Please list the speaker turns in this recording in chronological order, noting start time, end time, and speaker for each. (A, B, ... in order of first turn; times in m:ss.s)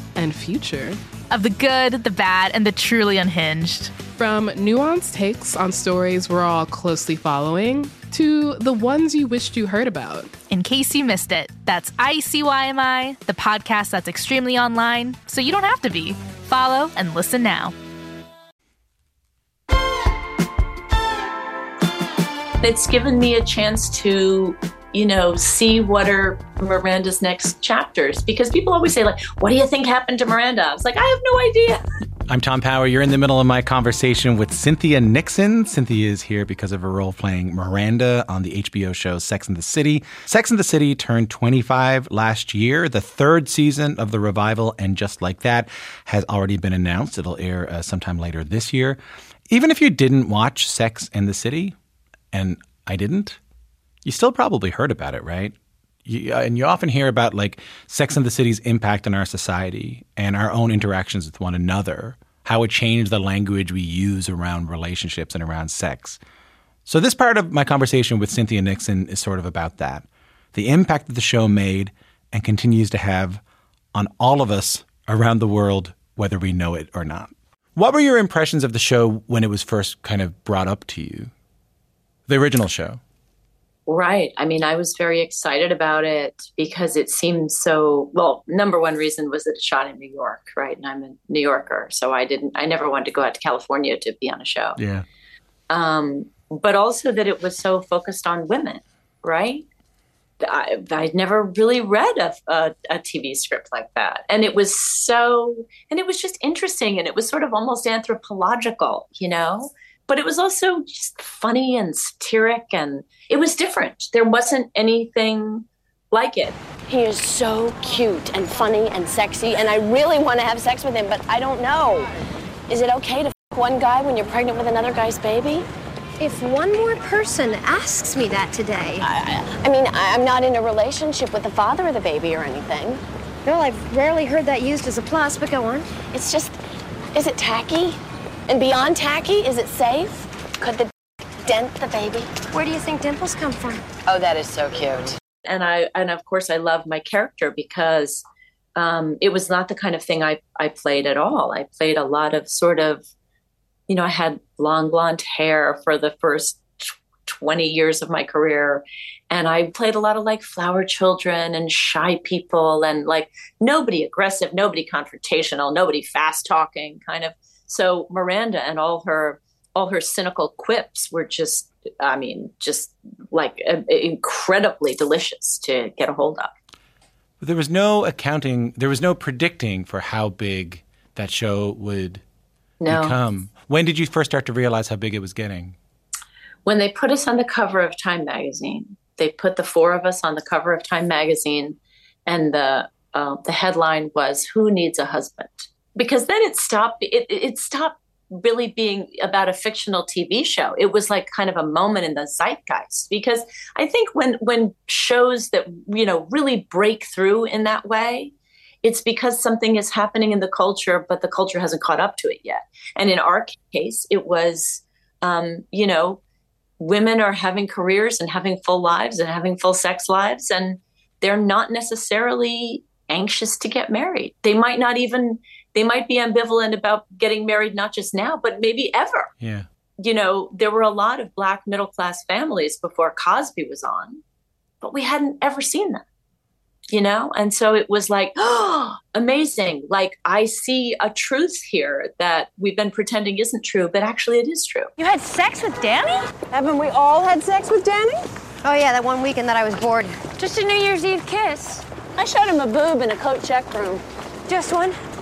0:00.1-0:01.0 A
0:01.3-0:04.0 B
0:04.1-0:10.4 A
0:10.5-0:17.7 B
0:22.6-0:31.8 C
0:32.3-0:49.0 D
0:49.5-0:51.8 D
0:52.3-0:53.4 D
0:54.0-1:06.2 D
1:06.8-1:13.4 D
1:13.9-1:21.3 D
1:22.3-1:23.0 D
1:23.9-1:34.8 C
1:34.8-1:35.0 D
1:35.7-1:39.6 C
1:40.4-1:56.6 C
1:56.9-2:02.1 E
2:02.7-2:05.6 E
2:06.9-2:08.9 F
2:09.5-2:13.0 E
2:16.0-2:16.5 E
2:17.1-2:20.9 E
2:21.4-2:22.3 E
2:24.0-2:25.2 E
2:25.4-2:28.2 C
2:28.8-2:33.0 C
2:33.9-2:56.5 C
2:57.4-3:02.2 D
3:02.8-3:03.2 C
3:02.9-3:05.8 D
3:06.6-3:36.2 C
3:36.8-3:49.3 C
3:49.4-3:49.6 D
3:50.0-3:54.2 C
3:54.8-3:56.0 C
3:56.9-4:04.9 C
4:06.6-4:08.1 E
4:12.2-4:14.0 E